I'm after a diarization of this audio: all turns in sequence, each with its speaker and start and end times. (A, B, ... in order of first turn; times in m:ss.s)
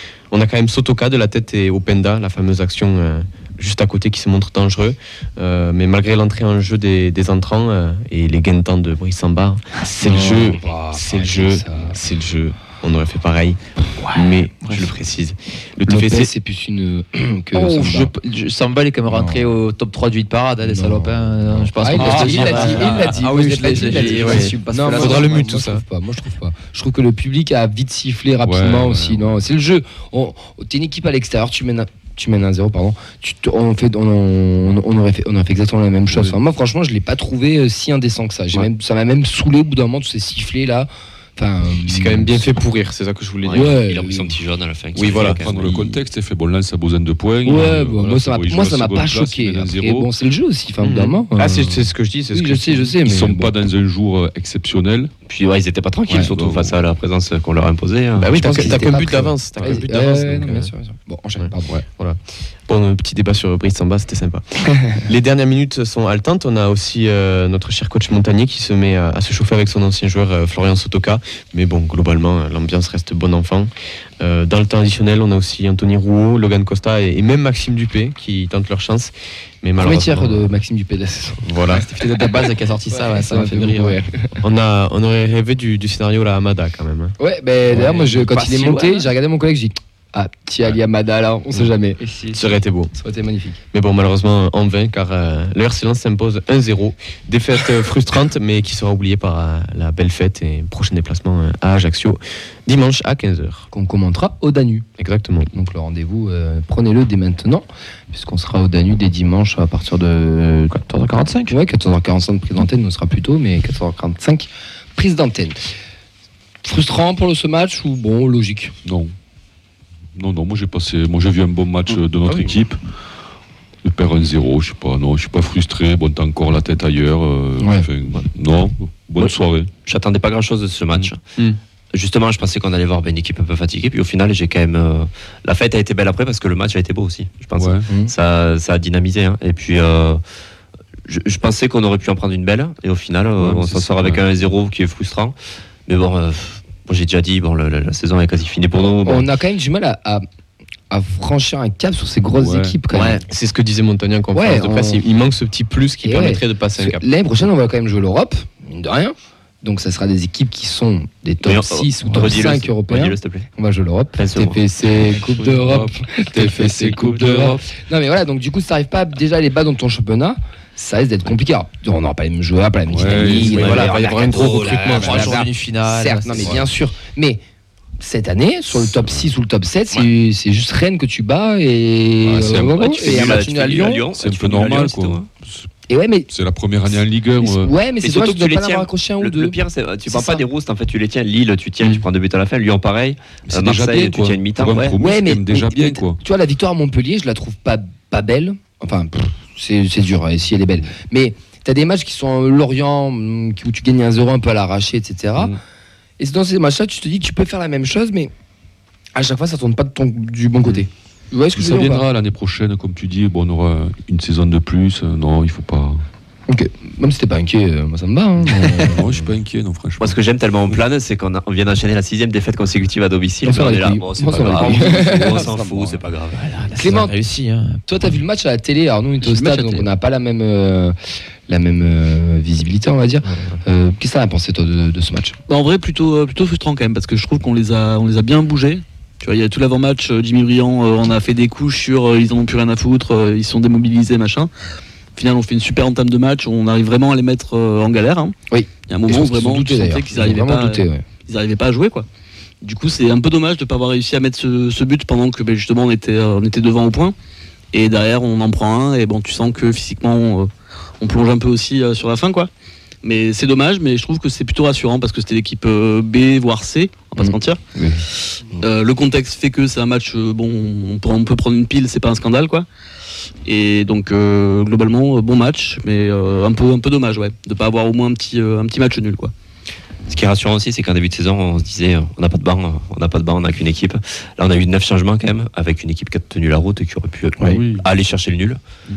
0:00.3-0:16.3 A
0:10.0-0:12.0 B
0:14.6-0:14.9 C
0:15.8-0:18.1 B
0:17.5-0:25.5 C
0:19.1-0:19.5 B
0:20.6-0:42.5 B
0:22.0-0:25.8 A
0:22.0-0:23.0 D
0:28.4-0:29.3 E
0:41.8-0:43.7 A
0:43.4-0:44.4 B
0:43.5-0:45.9 F
0:45.0-0:45.9 A
0:45.1-0:50.1 E
0:47.4-0:53.5 B
0:50.8-0:52.9 A
0:53.0-0:55.1 E
0:55.2-0:59.0 F
0:56.2-0:56.8 E
0:58.2-1:00.7 A
0:58.4-1:01.8 B
1:01.4-1:20.5 A
1:19.8-1:24.4 B
1:21.4-1:21.8 A
1:21.7-1:24.0 C
1:24.4-1:27.1 A
1:27.2-1:32.0 B
1:27.7-1:29.1 C
1:32.0-1:32.5 C
1:32.3-1:32.9 A
1:32.9-1:33.6 B
1:33.7-1:43.7 A
1:43.7-1:44.9 B
1:45.0-1:45.5 A
1:45.5-1:50.7 B
1:50.7-1:51.5 C
1:51.5-1:55.6 B
1:56.6-1:58.7 B
1:58.8-1:59.1 E
2:00.1-2:02.8 E
2:03.8-2:09.7 E
2:07.6-2:07.9 B
2:09.8-2:11.2 F
2:11.9-2:20.2 F
2:17.6-2:17.9 E
2:21.0-2:25.3 F
2:23.4-2:24.3 E
2:25.9-2:29.3 F
2:29.0-2:30.2 B
2:30.9-2:33.2 B
2:32.4-2:32.8 E
2:32.9-2:37.0 A
2:34.3-2:35.0 B
2:36.0-2:57.4 B
2:41.4-2:43.5 F
2:44.2-2:44.6 F
2:45.1-2:47.7 E
2:52.9-2:53.7 E
2:53.3-2:55.4 A
2:53.4-2:55.2 F
2:54.7-2:56.6 C
2:58.0-3:04.1 B
2:58.9-2:59.2 E
3:02.2-3:03.1 E
3:02.6-3:05.3 F
3:04.1-3:05.7 E
3:05.9-3:06.3 B
3:06.3-3:07.7 E
3:06.9-3:10.4 B
3:08.0-3:15.0 F
3:13.5-3:16.2 E
3:15.0-3:25.5 B
3:26.2-3:28.3 B
3:29.1-3:32.0 B
3:31.5-3:36.0 E
3:36.5-3:39.3 B
3:38.6-3:40.2 E
3:40.0-3:46.7 F
3:43.4-3:45.6 B
3:44.7-3:45.4 C
3:46.7-3:47.8 C
3:46.7-3:47.1 B
3:47.9-3:51.0 B
3:49.3-3:49.8 D
3:51.5-3:55.4 B
3:55.5-4:04.5 D
4:05.2-4:08.3 D
4:08.5-4:11.0 B
4:08.9-4:12.0 D
4:12.6-4:17.1 D
4:17.7-4:22.5 D
4:23.0-4:27.6 D
4:27.2-4:28.0 B
4:28.2-4:32.7 D
4:33.4-4:39.3 D
4:40.1-4:48.6 F
4:47.4-4:47.9 E